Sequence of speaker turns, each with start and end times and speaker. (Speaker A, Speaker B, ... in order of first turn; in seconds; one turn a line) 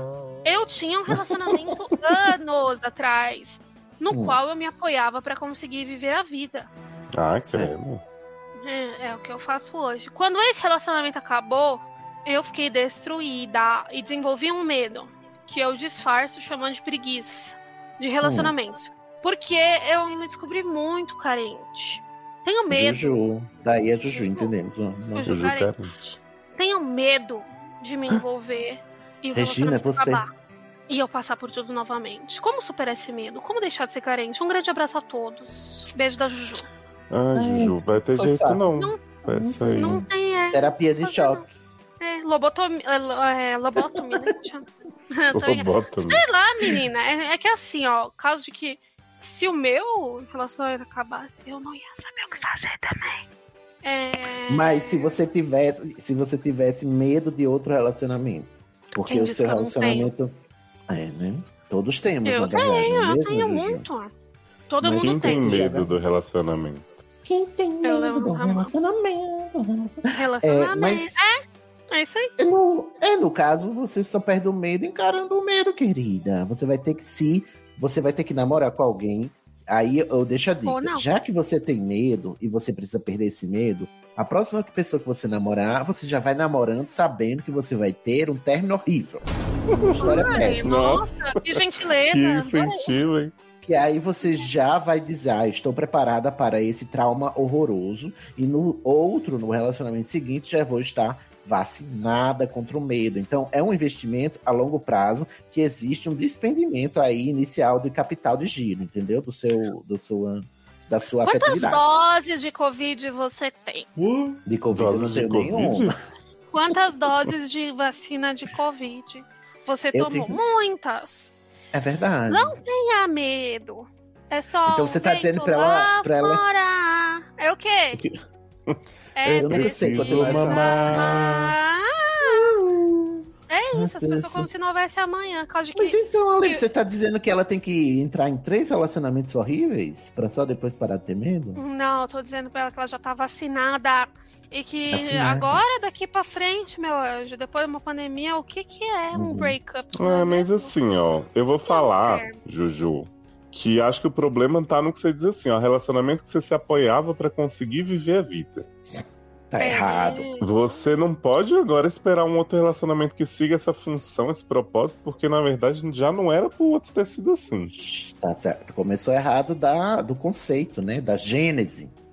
Speaker A: 0.5-6.7
Speaker B: 1.1-1.6
Speaker B: 4.1-4.4
Speaker C: 7.2-8.0
Speaker B: 7.5-7.7
Speaker A: 8.6-23.2
Speaker B: 18.2-18.5
Speaker B: 22.7-25.4
Speaker A: 24.1-24.5
Speaker A: 25.1-30.3
Speaker C: 25.3-25.9
Speaker B: 29.3-30.2
Speaker A: 30.9-36.7
Speaker C: 37.1-40.0
Speaker B: 37.4-38.7
Speaker A: 38.7-39.0
Speaker B: 39.2-41.5
Speaker A: 39.8-41.4
Speaker A: 42.0-53.2
Speaker B: 43.8-44.3
Speaker C: 45.3-46.2
Speaker A: 53.8-55.2
Speaker B: 54.5-60.4
Speaker A: 59.0-60.1
Speaker B: 60.9-63.9
Speaker A: 62.2-64.1
Speaker A: 64.7-65.6
Speaker B: 64.8-66.0
Speaker C: 65.0-66.9
Speaker B: 67.2-71.3
Speaker A: 67.8-68.7
Speaker A: 70.1-71.4
Speaker A: 71.9-72.3
Speaker B: 72.4-90.8
Speaker A: 80.7-81.1
Speaker C: 89.7-93.3
Speaker A: 90.0-92.9
Speaker B: 93.6-111.8
Speaker A: 111.2-113.9
Speaker C: 114.1-116.0
Speaker B: 114.5-115.9
Speaker A: 116.5-121.4
Speaker B: 119.9-120.4
Speaker B: 121.7-122.6
Speaker A: 122.3-128.0
Speaker B: 124.7-126.4
Speaker C: 128.7-131.5
Speaker A: 129.2-132.6
Speaker B: 129.4-131.2
Speaker B: 132.2-134.5
Speaker A: 133.5-136.7
Speaker B: 135.8-141.6
Speaker A: 141.6-150.8
Speaker B: 144.9-145.6
Speaker B: 149.1-149.6
Speaker C: 150.0-158.7
Speaker A: 151.7-152.4
Speaker B: 159.5-160.3
Speaker A: 159.6-160.4
Speaker C: 160.4-167.7
Speaker B: 167.7-171.9